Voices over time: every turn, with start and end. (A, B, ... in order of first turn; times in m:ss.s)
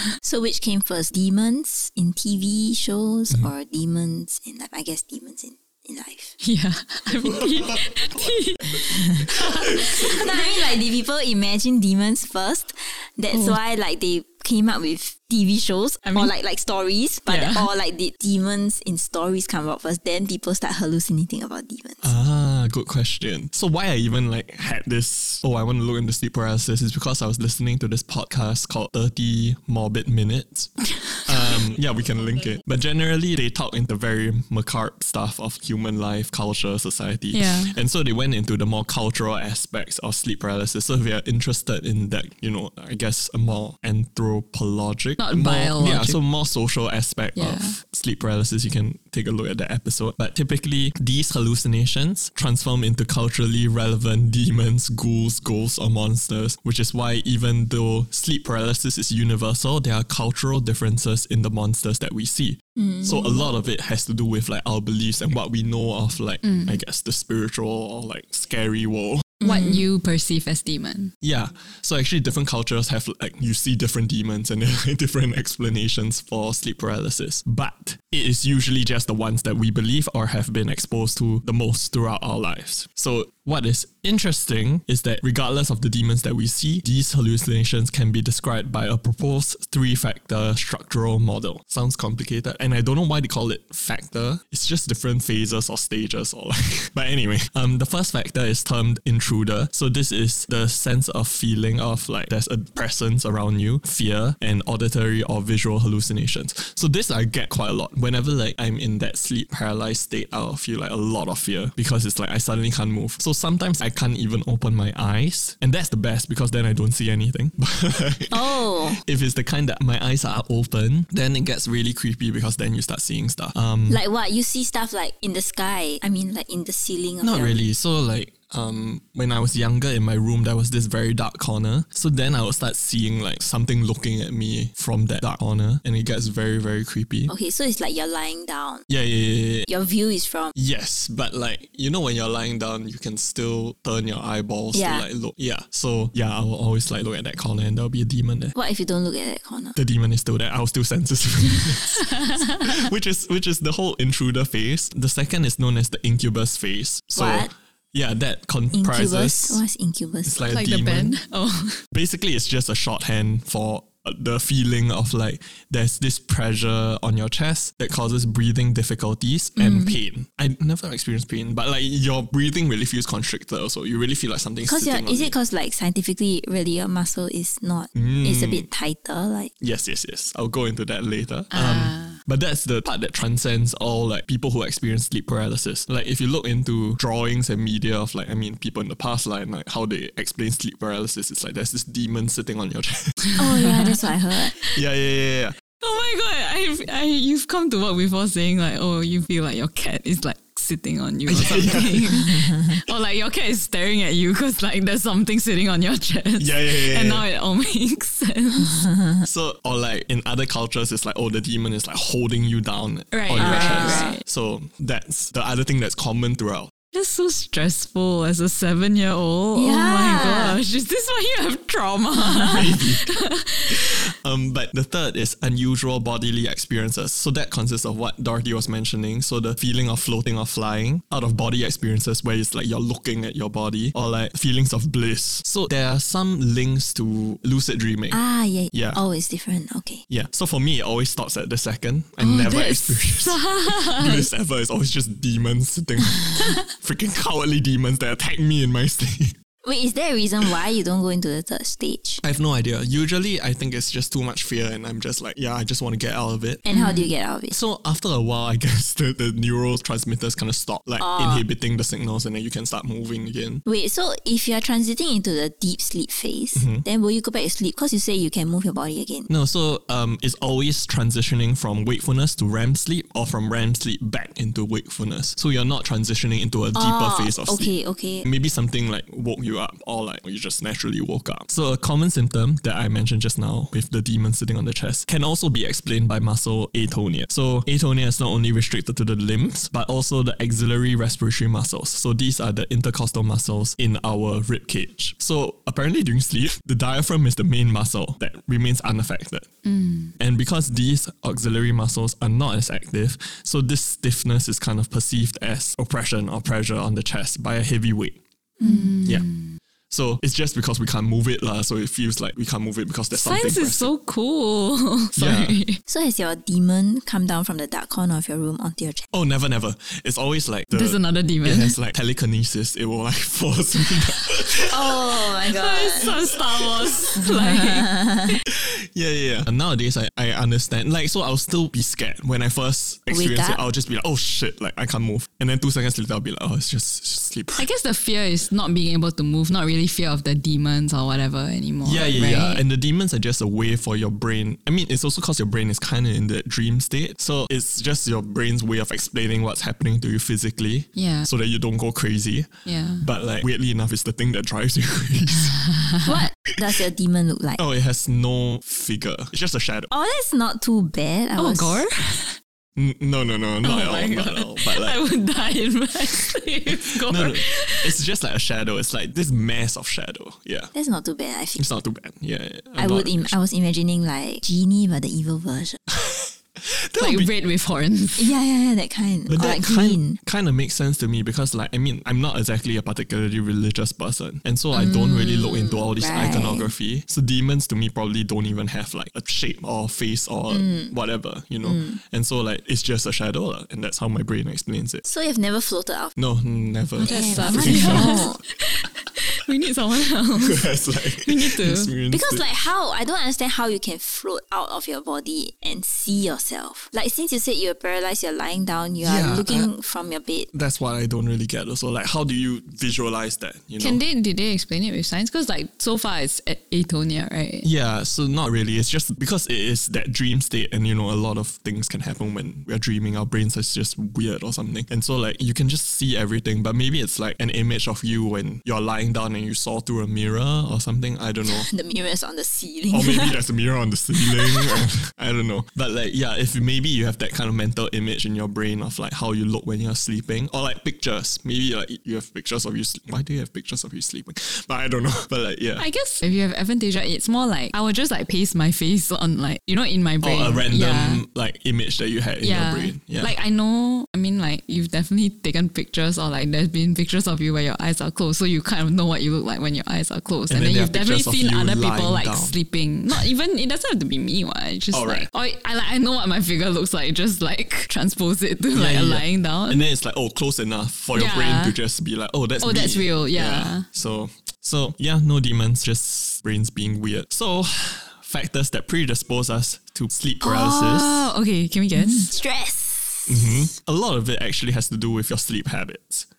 0:00.2-0:06.3 A
0:06.4-0:10.6 B
0:07.2-0:08.2 C
0:08.9-0:22.1 A
0:09.7-0:10.2 C
0:13.3-0:13.6 B
0:16.0-0:16.3 B
0:17.3-0:17.7 B
0:22.0-1:09.4 C
0:37.3-0:37.8 B
0:45.2-0:46.2 B
0:47.4-0:47.8 B
1:02.8-1:03.5 A
1:06.4-1:06.8 B
1:09.4-1:09.9 A
1:09.4-1:11.1 B
1:11.2-2:04.0 C
1:58.3-1:59.0 A
2:03.9-2:07.6 A
2:07.2-2:17.3 C
2:17.3-2:18.8 A
2:18.9-2:19.7 C
2:19.7-2:20.5 A
2:20.6-2:28.6 C
2:24.7-2:25.1 A
2:28.5-2:29.8 A
2:29.8-2:39.6 C
2:32.0-2:32.8 B
2:37.2-2:37.5 A
2:38.7-2:40.4 A
2:40.2-2:41.2 C
2:40.5-2:41.8 B
2:41.9-2:55.4 C
2:49.6-2:50.0 A
2:54.6-2:59.5 A
2:57.9-2:58.7 C
2:59.6-3:13.3 C
3:01.5-3:02.2 B
3:13.4-3:14.5 A
3:13.5-3:13.9 B
3:14.6-3:15.6 C
3:15.8-3:28.9 B
3:21.3-3:22.3 C
3:22.3-3:22.6 A
3:26.4-3:27.3 C
3:28.6-3:29.2 A
3:29.2-3:36.7 C
3:33.1-3:34.2 B
3:33.4-3:34.2 A
3:36.9-3:43.9 B
3:39.6-3:40.6 A
3:42.5-3:43.0 C
3:43.7-3:58.2 C
3:58.1-4:00.0 A
3:58.7-3:59.0 C
4:00.1-4:09.3 C
4:02.2-4:04.3 B
4:09.6-4:12.2 A
4:12.2-4:16.7 C
4:16.7-4:17.6 A
4:16.7-4:17.1 B
4:17.5-4:23.6 C
4:21.0-4:21.5 A
4:23.6-4:29.3 A
4:26.6-4:26.8 C
4:29.3-4:59.5 C
4:36.8-4:38.3 A
4:59.6-5:00.1 B
5:00.2-5:08.2 C
5:08.6-5:09.6 B
5:09.9-5:13.9 C
5:13.1-5:15.8 B
5:15.2-5:15.6 C
5:15.9-5:19.1 A
5:19.1-5:25.1 C
5:20.7-5:21.8 B
5:24.7-5:26.1 A
5:25.5-5:28.4 B
5:26.6-5:27.2 C
5:27.2-5:28.4 A
5:28.5-5:37.7 C
5:33.1-5:33.6 A
5:37.6-5:42.6 B
5:41.8-5:55.6 C
5:51.0-5:51.3 B
5:52.7-5:53.1 B
5:55.6-5:56.2 B
5:56.0-5:57.6 A
5:57.6-5:59.9 C
5:59.9-6:01.8 A
6:01.4-6:02.4 B
6:02.8-6:05.0 C
6:03.6-6:07.9 B
6:07.0-6:10.7 C
6:10.7-6:11.7 A
6:11.6-6:13.4 C
6:12.8-6:15.8 A
6:15.9-6:17.3 C
6:17.0-6:18.3 B
6:18.2-6:20.2 A
6:19.3-6:35.0 C
6:24.7-6:25.6 B
6:25.4-6:26.7 A
6:30.5-6:31.0 A
6:31.6-6:32.0 A
6:35.0-6:36.1 A
6:36.2-6:38.3 C
6:37.0-6:41.9 B
6:37.0-6:38.4 A
6:40.4-6:42.5 C
6:42.1-6:50.5 A
6:49.0-6:49.7 C
6:50.5-6:54.0 C
6:53.8-6:57.7 B
6:57.6-7:11.7 C
7:11.5-7:13.4 A
7:12.9-7:25.8 C
7:14.1-7:14.8 A
7:25.8-7:31.2 B
7:30.2-7:33.4 C
7:32.4-7:49.9 B
7:40.5-7:42.6 C
7:44.9-7:45.3 C
7:48.7-8:01.3 C
7:51.1-7:51.8 B
7:52.6-7:53.9 B
8:00.4-8:02.3 B
8:01.9-8:03.7 A
8:03.3-8:06.3 C